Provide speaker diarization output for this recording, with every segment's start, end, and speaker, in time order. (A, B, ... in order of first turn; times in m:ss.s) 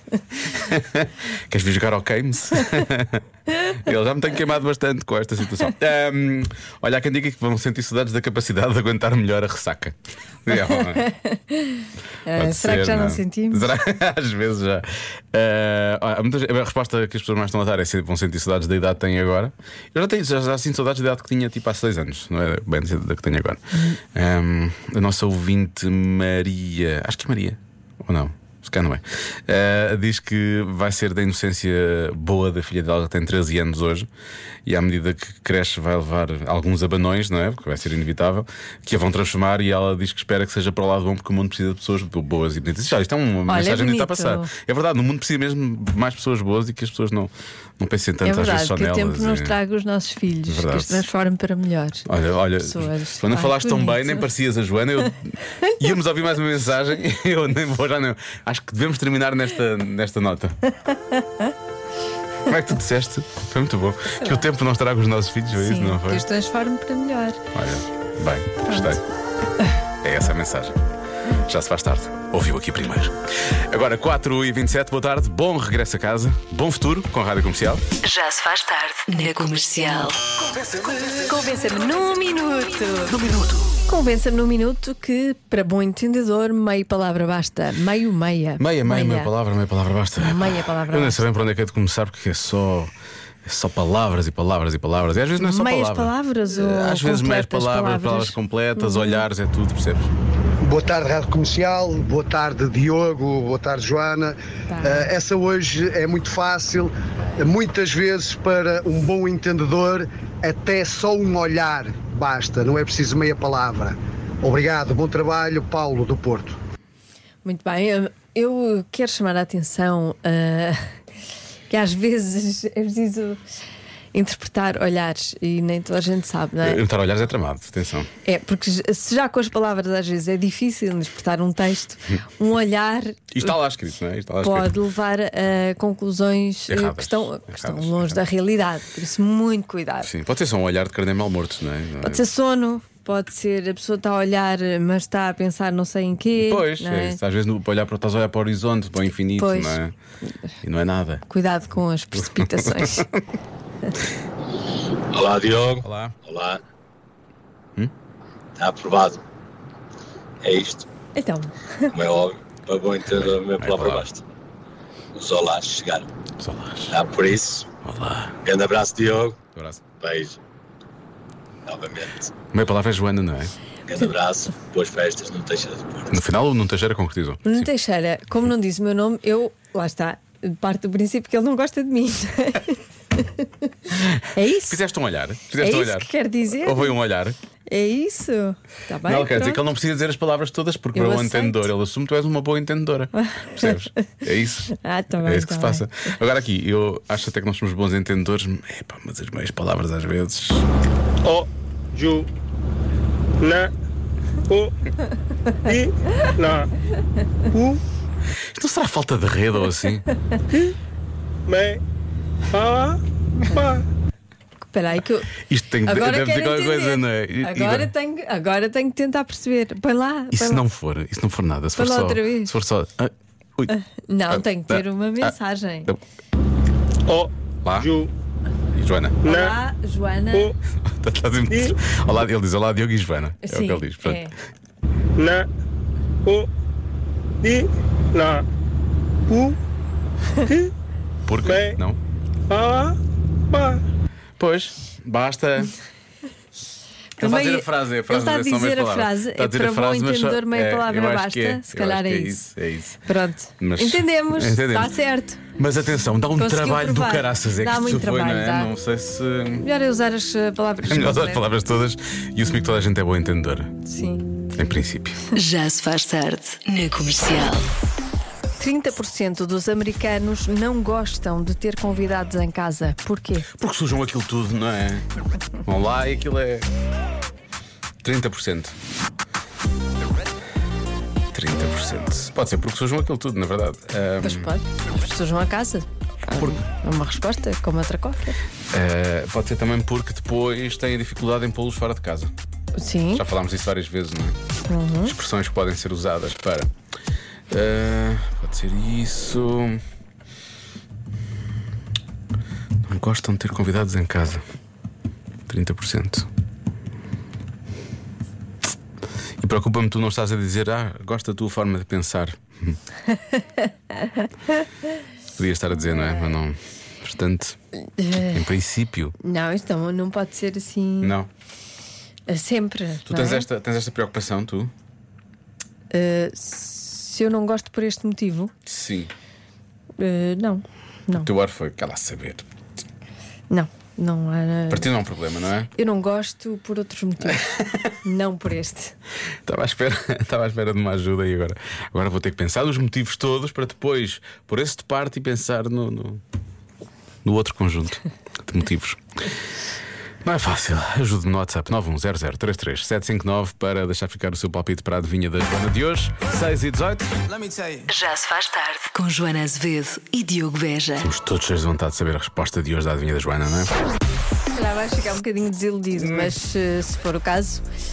0:00.4-0:11.1 A
0:11.0-0:13.6 B
0:12.3-0:34.1 A
0:34.6-0:49.6 A
0:43.5-0:44.5 B
0:48.2-0:52.1 B
0:50.5-0:51.0 A
0:52.1-1:00.7 A
0:52.6-0:54.3 B
1:02.4-1:06.2 A
1:05.6-1:07.4 B
1:07.5-1:09.0 A
1:08.6-1:09.0 B
1:10.0-1:10.8 A
1:11.3-1:17.8 A
1:18.0-1:20.2 C
1:20.5-1:21.2 A
1:21.3-1:23.2 B
1:23.1-1:23.7 A
1:23.8-1:29.3 B
1:28.6-1:32.9 A
1:30.2-1:31.2 B
1:33.4-1:40.1 A
1:35.4-1:39.2 B
1:40.6-1:56.6 D
1:44.7-1:45.1 B
1:57.4-2:00.8 B
2:01.7-2:03.4 B
2:04.1-2:06.8 B
2:06.6-2:08.1 A
2:08.2-2:13.3 B
2:13.3-2:14.7 A
2:14.4-2:20.1 B
2:16.7-2:18.2 A
2:20.0-2:22.2 A
2:22.1-2:27.2 B
2:26.4-2:29.9 A
2:29.3-2:29.8 B
2:30.6-2:31.2 A
2:31.3-2:33.1 B
2:32.2-2:33.0 A
2:35.1-2:36.6 E
2:35.8-2:36.2 A
2:38.6-2:39.2 E
2:40.4-2:40.8 E
2:41.1-2:41.9 B
2:41.9-2:44.2 E
2:43.2-2:44.1 A
2:45.1-2:46.0 E
2:46.4-2:46.9 A
2:46.9-2:47.6 E
2:47.8-2:48.3 A
2:48.4-2:49.3 E
2:49.5-2:49.8 A
2:50.0-2:50.4 E
2:51.7-2:52.3 E
2:52.5-2:53.5 A
2:53.9-2:56.1 E
2:56.1-2:57.7 A
2:57.4-3:03.5 B
3:04.3-3:04.8 B
3:04.6-3:07.4 A
3:05.6-3:07.0 B
3:07.7-3:09.6 B
3:09.0-3:14.7 A
3:10.9-3:11.7 B
3:13.1-3:14.1 B
3:14.7-3:15.8 B
3:15.2-3:20.6 A
3:21.2-3:22.3 F
3:23.4-3:23.7 F
3:25.6-3:26.7 F
3:27.5-3:27.8 F
3:28.5-3:30.1 A
3:31.5-3:31.8 F
3:32.5-3:33.0 F
3:33.5-3:33.8 F
3:34.7-3:40.6 B
3:35.4-3:37.9 A
3:40.3-3:43.7 A
3:41.8-3:42.5 B
3:43.7-3:45.9 B
3:44.3-3:45.3 A
3:47.1-3:48.1 F
3:47.6-3:47.9 A
3:48.7-3:49.2 A
3:49.2-3:49.5 F
3:49.3-3:50.5 B
3:50.8-3:54.3 A
3:51.5-3:51.7 F
3:53.4-3:54.3 B
3:55.2-3:55.4 F
3:57.4-3:58.4 F
3:59.3-3:59.6 F
4:01.2-4:02.0 A
4:01.4-4:01.8 F
4:02.5-4:02.9 F
4:03.5-4:03.8 F
4:04.4-4:05.7 A
4:07.2-4:12.4 B
4:07.2-4:13.0 A
4:13.0-4:15.4 B
4:13.6-4:14.9 A
4:15.6-4:19.6 A
4:16.4-4:18.7 B
4:19.6-4:21.5 B
4:20.8-4:23.7 A
4:23.8-4:24.3 B
4:24.5-4:25.2 A
4:25.3-4:27.6 C
4:28.6-4:33.5 B
4:33.6-4:35.0 A
4:35.6-4:36.7 A
4:38.0-4:38.7 A
4:41.3-4:44.5 A
4:44.2-4:48.4 B
4:46.3-4:46.6 A
4:48.7-4:52.3 A
4:52.8-4:53.2 B
4:53.1-4:54.4 A
4:54.7-4:55.1 B
4:55.0-4:56.7 A
4:57.5-4:59.8 A
5:02.8-5:04.4 A
5:05.5-5:06.3 A
5:09.4-5:12.8 A
5:13.3-5:14.0 B
5:15.4-5:17.6 A
5:18.0-5:18.3 B
5:18.2-5:19.1 A
5:19.2-5:21.2 B
5:21.0-5:21.3 A
5:22.3-5:23.5 B
5:23.1-5:24.7 A
5:25.9-5:28.5 B
5:28.7-5:29.1 A
5:30.0-5:31.3 B
5:31.2-5:32.4 A
5:33.5-5:34.9 B
5:34.7-5:35.7 A
5:35.7-5:37.5 B
5:37.3-5:37.9 A
5:38.0-5:38.9 B
5:39.4-5:46.2 A
5:47.2-5:49.0 A
5:50.2-5:57.1 A
5:57.9-6:01.1 C
6:01.0-6:03.7 A
6:04.5-6:07.6 B
6:05.9-6:06.3 A